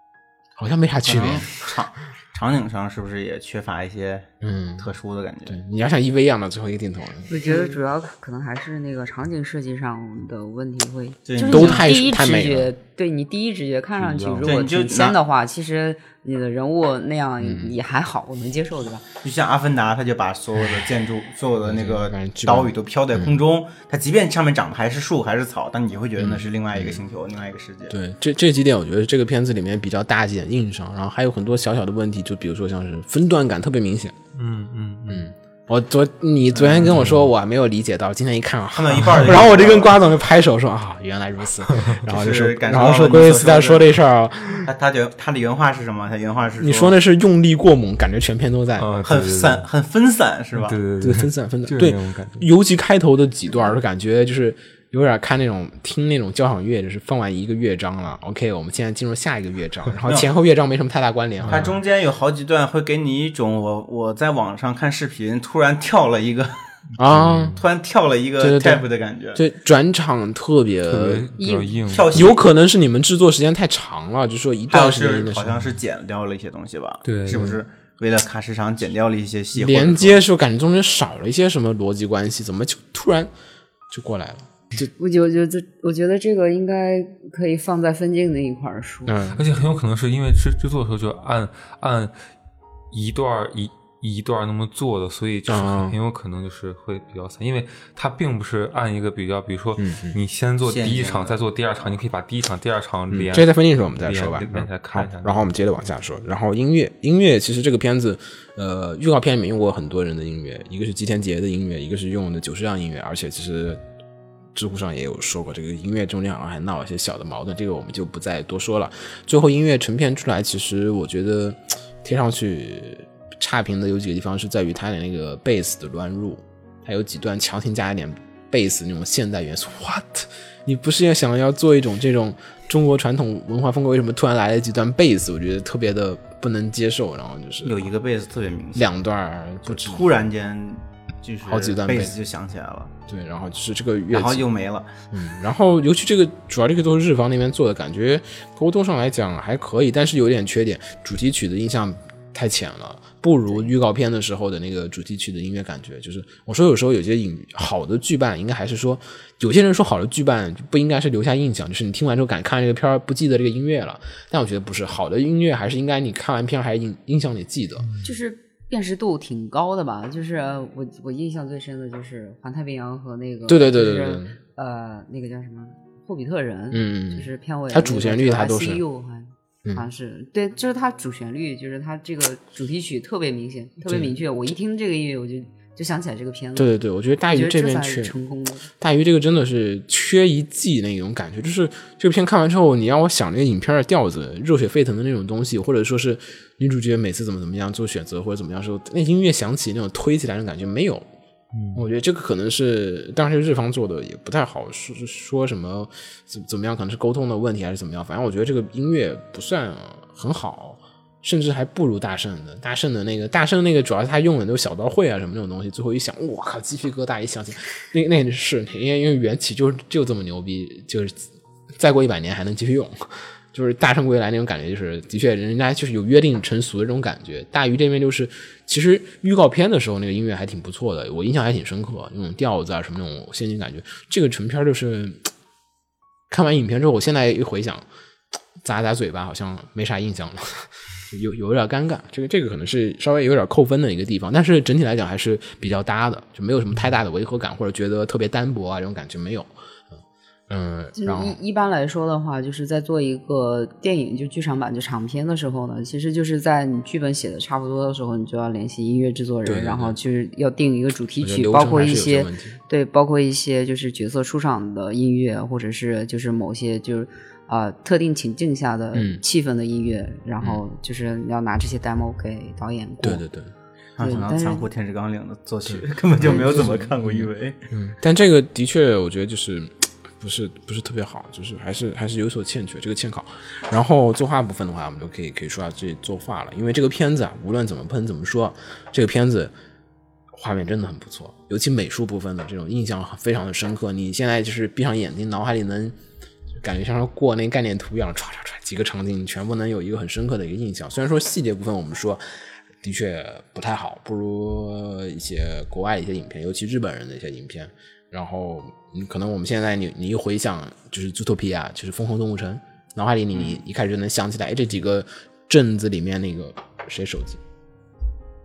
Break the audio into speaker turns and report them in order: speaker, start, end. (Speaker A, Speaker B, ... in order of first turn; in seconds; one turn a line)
Speaker A: 0.6-1.5
Speaker B: 1.0-4.3
Speaker A: 4.4-4.9
Speaker B: 4.8-5.6
Speaker A: 5.5-7.3
Speaker C: 7.3-19.0
Speaker B: 7.5-7.8
Speaker B: 11.2-11.9
Speaker A: 11.5-12.7
Speaker D: 14.0-14.5
Speaker B: 14.4-15.2
Speaker A: 17.4-17.7
Speaker B: 19.2-27.9
Speaker A: 21.6-23.4
Speaker A: 26.2-27.0
Speaker A: 27.9-34.1
Speaker D: 34.3-35.3
Speaker A: 35.1-44.7
Speaker B: 36.5-37.0
Speaker D: 36.9-37.2
Speaker B: 38.7-40.0
Speaker B: 42.1-43.9
Speaker B: 44.6-46.9
Speaker A: 46.6-48.9
Speaker D: 48.8-49.6
Speaker B: 49.0-50.8
Speaker D: 50.5-52.5
Speaker A: 51.0-61.7
Speaker D: 61.4-61.8
Speaker B: 61.5-66.5
Speaker A: 67.0-67.6
Speaker D: 67.0-67.6
Speaker B: 67.5-69.4
Speaker A: 68.4-71.3
Speaker D: 70.9-72.3
Speaker C: 71.4-71.8
Speaker B: 71.9-72.4
Speaker A: 72.1-75.6
Speaker B: 74.7-80.2
Speaker D: 77.0-77.5
Speaker A: 77.3-77.6
Speaker A: 79.5-83.3
Speaker A: 83.9-84.9
Speaker C: 85.0-89.1
Speaker A: 89.1-89.4
Speaker D: 89.3-92.1
Speaker D: 92.9-105.5
Speaker A: 95.5-96.0
Speaker A: 99.8-100.2
Speaker B: 100.6-101.4
Speaker A: 103.1-113.8
Speaker A: 114.5-137.9
Speaker B: 137.6-138.8
Speaker A: 138.7-140.1
Speaker B: 139.7-142.9
Speaker A: 141.4-142.1
Speaker A: 143.1-144.4
Speaker B: 144.1-144.9
Speaker A: 145.1-167.9
Speaker C: 168.0-186.7
Speaker A: 173.5-174.3
Speaker A: 176.7-178.8
Speaker A: 183.8-184.1
Speaker A: 186.6-188.1
Speaker C: 187.3-188.7
Speaker A: 188.8-201.0
Speaker D: 201.5-201.8
Speaker A: 201.7-235.3
Speaker A: 236.3-237.8
Speaker A: 238.6-249.5
Speaker A: 250.5-251.4
Speaker C: 250.9-273.2
Speaker A: 259.4-259.9
Speaker A: 261.2-262.6
Speaker A: 268.9-269.2
Speaker A: 273.0-273.5
Speaker B: 274.0-277.6
Speaker C: 274.0-274.6
Speaker A: 275.6-289.5
Speaker C: 276.3-276.7
Speaker A: 290.3-295.9
Speaker A: 296.5-302.2
Speaker A: 302.8-317.4